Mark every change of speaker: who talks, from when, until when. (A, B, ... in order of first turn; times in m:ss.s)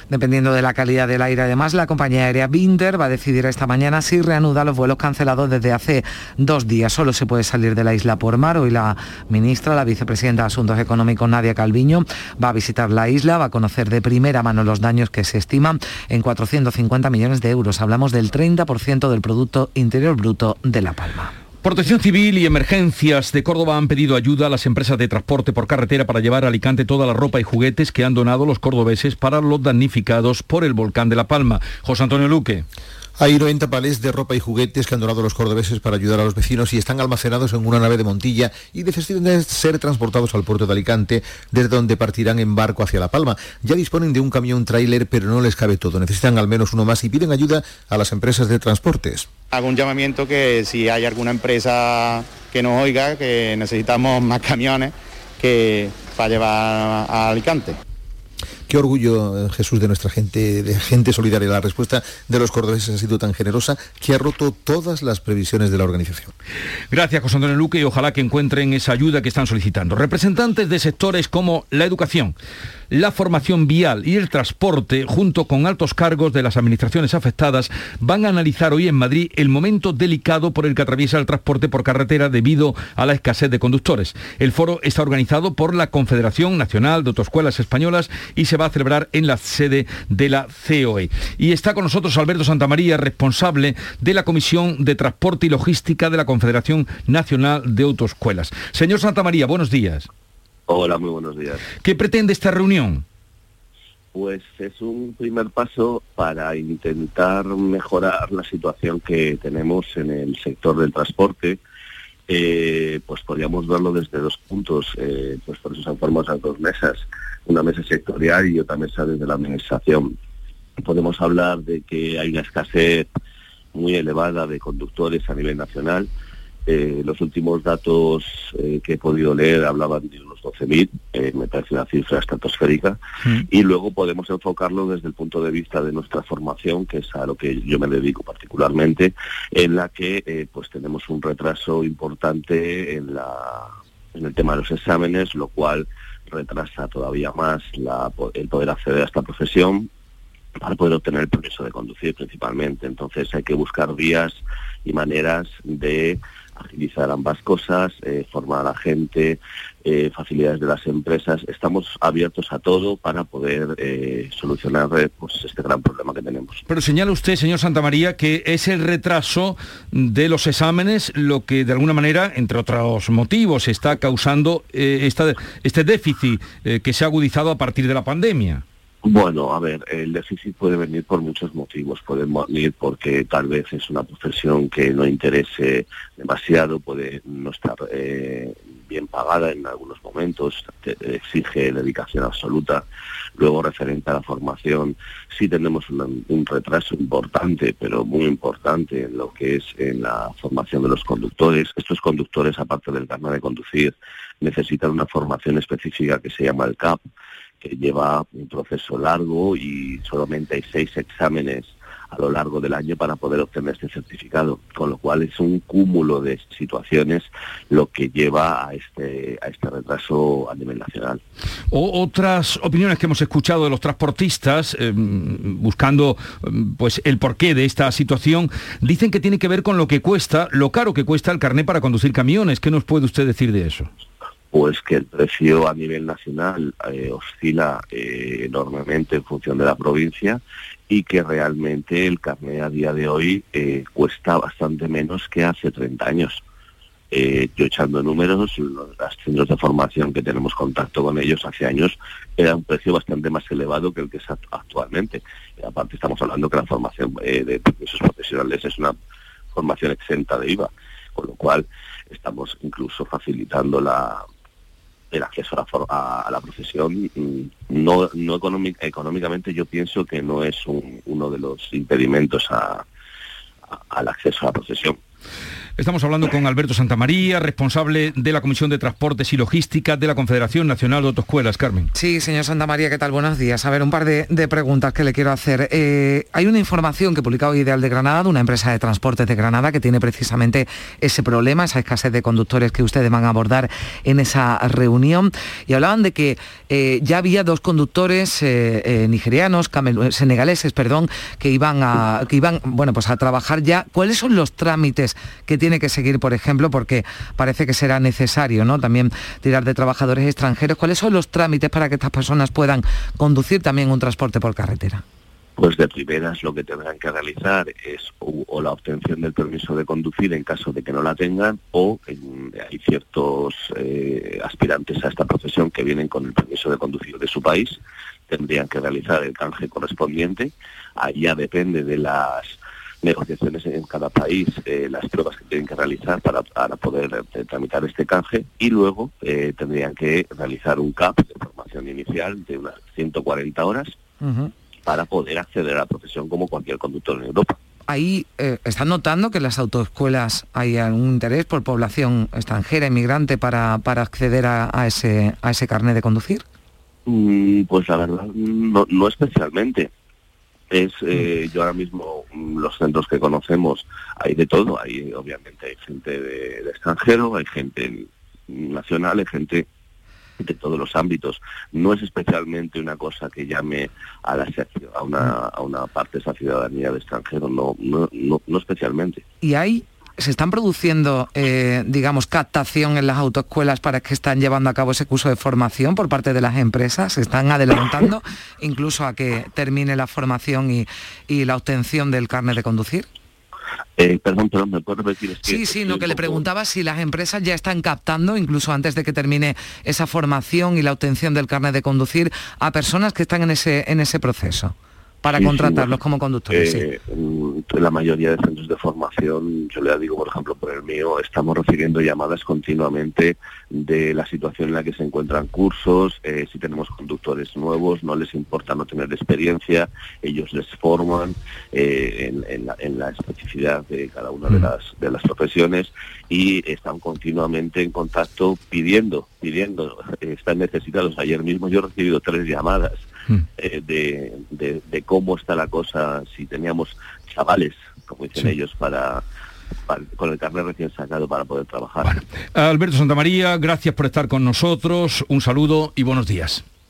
0:00.1-0:21.3 A
0:21.6-0:32.6 B
0:33.2-0:49.3 C
0:49.6-0:51.7 D
0:52.6-0:54.8 D
0:57.2-0:57.6 D
0:58.7-1:06.3 C
1:06.9-1:12.4 B
1:12.9-1:40.1 B
1:40.7-1:41.6 E
1:41.8-1:43.0 B
1:44.1-1:51.6 E
1:52.3-2:00.1 E
2:00.8-2:03.1 E
2:03.7-2:06.1 E
2:06.7-2:13.0 E
2:13.5-2:29.9 E
2:30.6-2:46.6 E
2:46.7-2:58.6 B
2:59.0-3:12.8 E
3:13.4-3:27.0 E
3:27.6-3:41.2 E
3:41.7-3:53.9 B
3:54.5-4:06.4 E
4:07.1-4:19.0 E
4:19.5-4:24.2 E
4:25.1-4:32.8 E
4:33.8-4:35.0 E
4:35.8-4:41.9 B
4:41.9-5:15.0 A
5:15.6-5:44.0 E
5:44.2-5:44.5 A
5:44.9-5:47.6 E
5:47.9-5:56.4 A
5:57.1-5:59.9 E
6:00.7-6:09.7 E
6:10.4-6:19.2 E
6:19.4-6:33.1 A
6:34.0-6:36.4 E
6:35.4-6:46.9 A
6:45.4-6:45.9 E
6:46.5-7:13.0 E
7:13.6-7:19.2 E
7:19.9-7:22.2 E
7:22.0-7:26.6 B